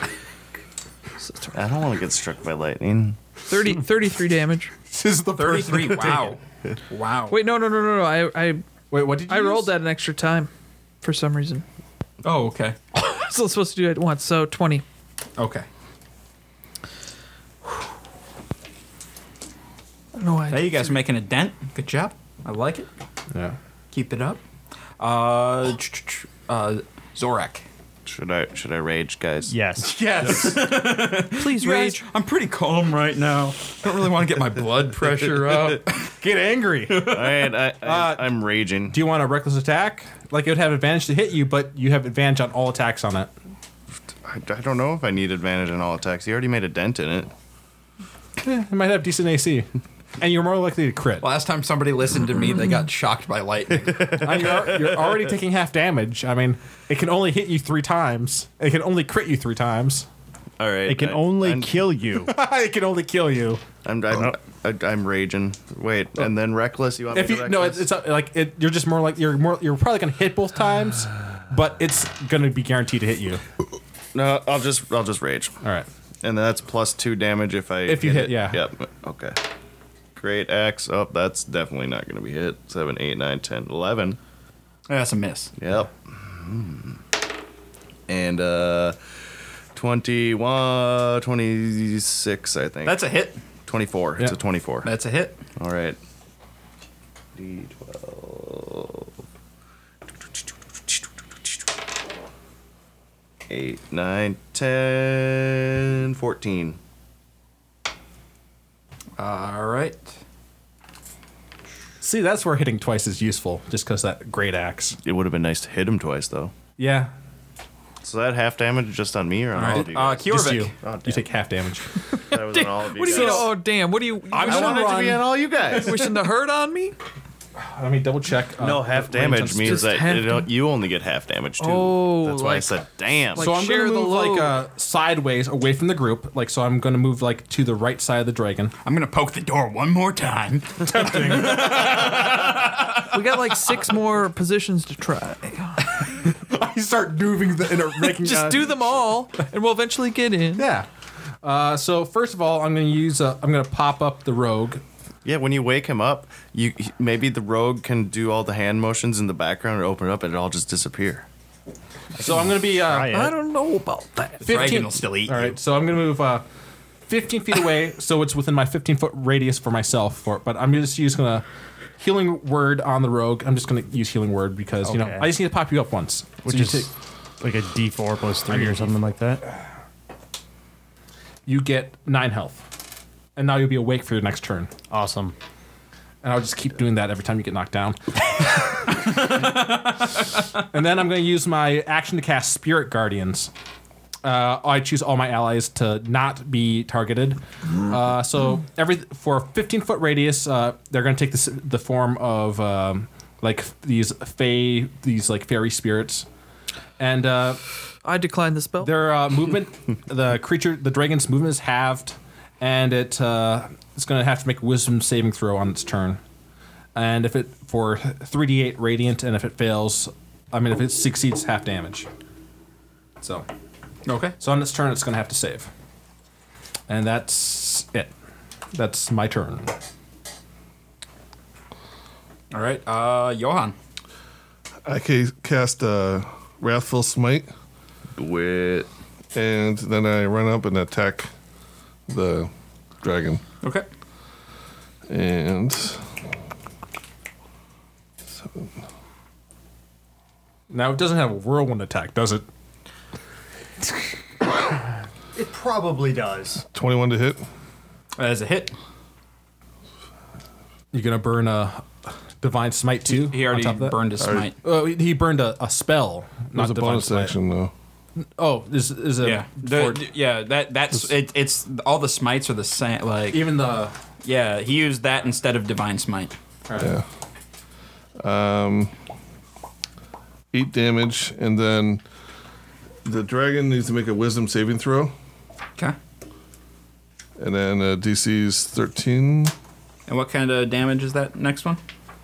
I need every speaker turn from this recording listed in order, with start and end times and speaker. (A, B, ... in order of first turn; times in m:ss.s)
0:01.2-0:01.5 A
0:01.5-0:03.2 B
0:03.5-0:04.7 A
0:04.9-0:06.3 C
0:05.4-0:07.4 D
0:07.3-0:08.6 A
0:08.9-0:09.7 C
0:09.2-0:10.5 A
0:11.0-0:11.6 A
0:12.2-0:12.8 D
0:12.9-0:14.8 A
0:15.4-0:15.7 D
0:20.1-0:20.9 A
0:20.5-0:22.9 D
0:23.3-0:23.6 C
0:23.9-0:24.4 D
0:25.0-0:27.6 D
0:28.0-0:29.5 B
0:29.5-0:30.0 E
0:29.8-0:30.7 C
0:30.2-0:30.5 F
0:30.2-0:36.1 D
0:31.3-0:32.0 A
0:36.1-0:38.3 C
0:36.9-0:37.2 D
0:37.0-0:39.0 B
0:38.9-0:43.3 C
0:44.2-0:47.3 B
0:48.4-0:49.7 C
0:50.2-0:51.3 C
0:51.2-0:54.3 D
0:53.8-0:55.2 B
0:54.2-1:00.1 C
1:00.6-1:01.8 B
1:00.8-1:02.3 E
1:02.2-1:03.6 C
1:03.8-1:07.8 B
1:07.1-1:13.4 C
1:14.1-1:15.6 B
1:15.6-1:15.9 C
1:16.2-1:19.4 B
1:17.8-1:18.6 C
1:20.2-1:24.2 B
1:24.9-1:25.5 D
1:25.6-1:27.0 B
1:28.1-1:29.0 B
1:29.7-1:33.0 B
1:32.8-1:33.4 D
1:33.6-1:34.9 B
1:34.8-1:35.4 D
1:35.6-1:36.0 B
1:37.4-1:39.1 B
1:43.5-1:46.8 B
1:49.2-1:50.1 D
1:52.0-1:55.0 C
1:55.0-1:56.5 B
1:56.8-1:57.1 C
1:58.0-2:01.2 B
1:59.5-2:00.7 D
1:59.7-2:02.0 C
2:02.2-2:03.5 B
2:02.3-2:07.0 A
2:03.0-2:03.5 C
2:04.3-2:05.8 C
2:04.4-2:06.1 B
2:07.6-2:10.0 C
2:08.6-2:13.5 B
2:09.6-2:10.5 A
2:11.6-2:12.8 A
2:13.3-2:14.6 A
2:13.4-2:18.7 C
2:18.8-2:23.2 D
2:20.8-2:22.8 C
2:23.1-2:26.1 A
2:26.2-2:28.9 C
2:27.9-2:30.7 A
2:30.6-2:30.9 C
2:31.4-2:34.8 C
2:35.2-2:41.2 B
2:42.1-2:43.2 C
2:42.2-2:43.3 E
2:43.1-2:44.7 A
2:44.4-2:45.6 D
2:44.4-2:46.4 C
2:47.1-2:51.4 C
2:52.0-2:56.9 C
2:54.8-2:55.3 E
2:56.4-2:59.4 E
2:58.5-2:58.9 C
3:01.4-3:02.7 C
3:03.4-3:04.7 C
3:04.9-3:05.3 E
3:06.2-3:13.5 C
3:09.0-3:10.0 D
3:14.2-3:26.3 C
3:27.0-3:27.6 C
3:28.0-3:28.9 A
3:28.8-3:36.2 C
3:36.9-3:42.1 C
3:43.2-3:43.4 C
3:44.0-3:44.4 D
3:44.4-3:45.7 C
3:46.9-3:48.1 C
3:48.7-3:49.7 C
3:52.5-3:53.7 D
3:54.8-3:57.5 F
3:58.2-3:58.9 B
3:59.3-4:01.3 F
4:02.1-4:03.4 F
4:05.1-4:06.0 F
4:10.7-4:12.4 C
4:15.3-4:16.6 E
4:16.7-4:17.4 F
4:18.2-4:18.7 D
4:20.9-4:24.0 C
4:23.1-4:24.6 D
4:24.2-4:24.5 F
4:24.5-4:27.3 C
4:26.5-4:27.7 F
4:28.2-4:30.0 C
4:29.2-4:33.4 D
4:33.3-4:33.9 C
4:34.2-4:36.4 D
4:36.7-4:36.9 C
4:36.8-4:37.0 F
4:38.2-4:38.9 F
4:40.5-4:42.0 F
4:43.0-4:45.1 F
4:47.4-4:49.5 F
4:50.1-4:51.8 D